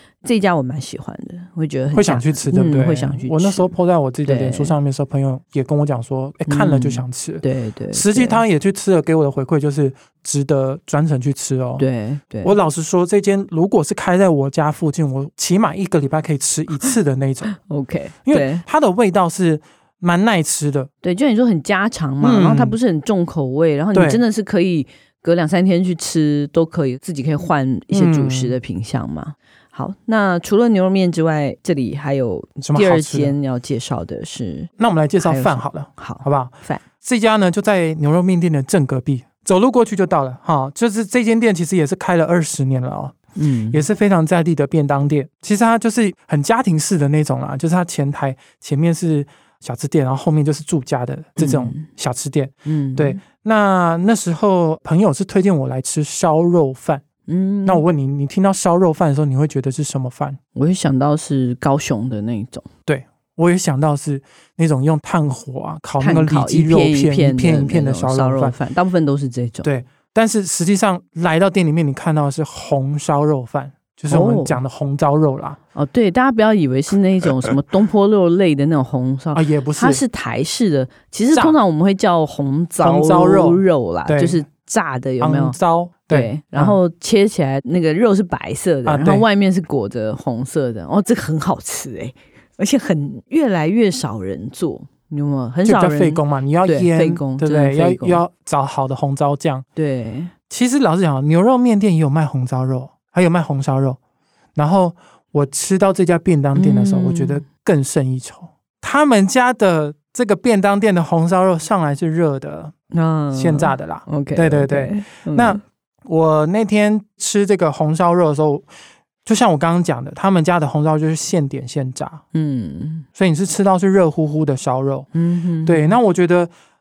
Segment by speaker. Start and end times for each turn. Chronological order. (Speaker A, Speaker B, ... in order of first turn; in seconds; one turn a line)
Speaker A: 0.2-4.8
Speaker B: 1.9-11.8
Speaker A: 6.5-8.4
Speaker A: 11.8-12.5
Speaker B: 12.4-17.5
Speaker A: 17.6-18.6
Speaker B: 18.2-20.9
Speaker A: 21.0-34.7
Speaker B: 22.2-22.8
Speaker B: 23.9-24.2
Speaker B: 27.9-28.6
Speaker B: 32.6-33.3
Speaker B: 34.8-36.5
Speaker A: 35.2-36.8
Speaker B: 37.0-43.1
Speaker A: 43.3-43.8
Speaker B: 43.7-57.0
Speaker A: 51.4-51.9
Speaker A: 52.6-53.2
Speaker A: 57.3-57.8
Speaker B: 57.6-60.4
Speaker A: 60.5-62.7
Speaker B: 62.9-68.5
Speaker A: 66.0-69.7
Speaker B: 69.6-75.6
Speaker A: 74.1-74.6
Speaker A: 75.7-85.6
Speaker B: 79.3-80.0
Speaker B: 82.8-84.4
Speaker B: 85.2-86.8
Speaker A: 86.1-98.2
Speaker B: 88.8-89.2
Speaker B: 95.6-99.6
Speaker A: 99.8-100.3
Speaker B: 100.5-104.0
Speaker B: 104.5-112.7
Speaker A: 106.5-107.4
Speaker A: 112.9-115.6
Speaker B: 113.3-118.7
Speaker B: 119.2-122.2
Speaker A: 122.3-123.0
Speaker B: 123.1-125.1
Speaker A: 125.1-126.0
Speaker B: 125.6-126.5